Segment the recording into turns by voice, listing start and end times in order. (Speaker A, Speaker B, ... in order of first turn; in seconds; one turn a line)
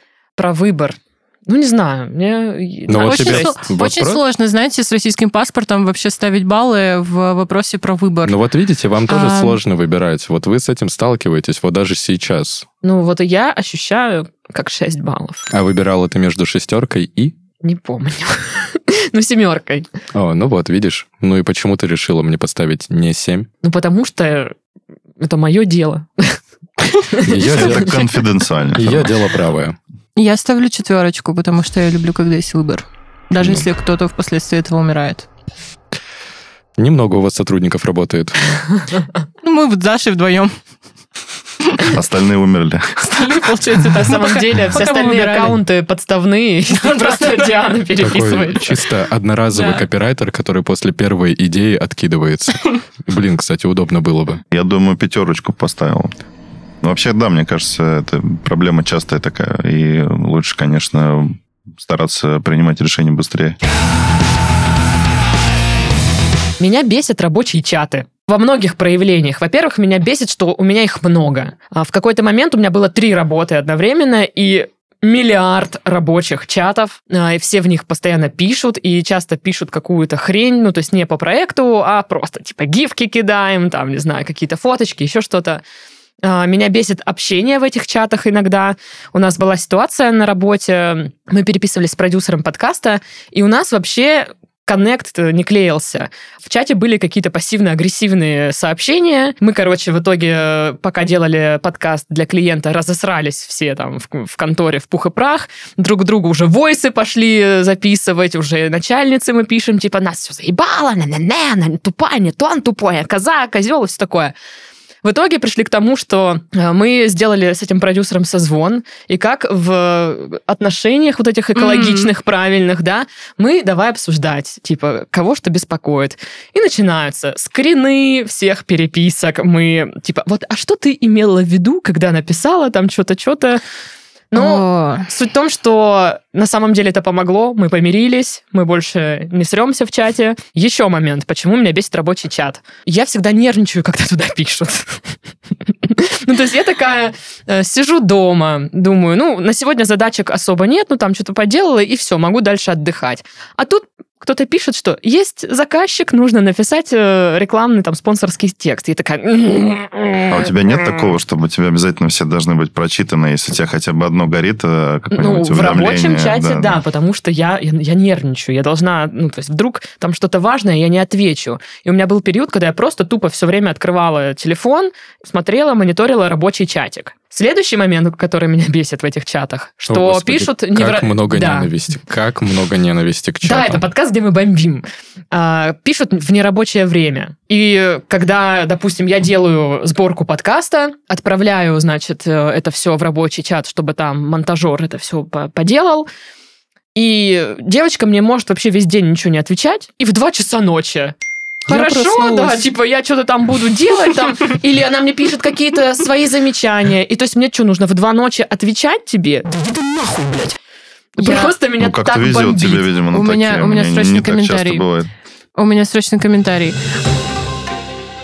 Speaker A: 0.4-3.5
Speaker B: 2.9-4.2
Speaker C: 3.0-8.3
Speaker B: 8.2-12.7
Speaker C: 9.1-9.6
Speaker A: 12.8-15.4
Speaker B: 15.5-17.3
Speaker A: 17.6-19.9
Speaker B: 20.1-23.5
Speaker A: 23.6-24.5
Speaker A: 25.2-26.4
Speaker A: 26.9-28.0
Speaker B: 27.2-28.0
Speaker D: 27.5-29.1
Speaker B: 28.7-29.8
Speaker C: 30.1-35.3
Speaker B: 36.8-38.6
Speaker C: 39.4-40.5
Speaker D: 41.9-42.9
Speaker C: 43.0-45.6
Speaker A: 43.8-48.7
Speaker C: 46.8-47.5
Speaker B: 48.0-54.4
Speaker C: 49.5-49.8
Speaker D: 54.5-56.1
Speaker D: 56.8-63.6
Speaker A: 66.6-85.6
Speaker A: 86.2-114.3
Speaker A: 115.0-133.6
Speaker C: 121.5-122.1
Speaker A: 134.3-145.0
Speaker C: 134.3-135.1
Speaker A: 145.8-160.5
Speaker D: 160.3-166.8
Speaker A: 165.1-181.7
Speaker B: 179.9-183.8
Speaker A: 183.4-196.1
Speaker A: 196.9-201.1
Speaker C: 201.7-202.6
Speaker A: 201.7-209.5
Speaker A: 211.2-212.9
Speaker C: 211.2-211.5
Speaker D: 211.8-215.1
Speaker C: 213.1-214.8
Speaker C: 215.6-216.8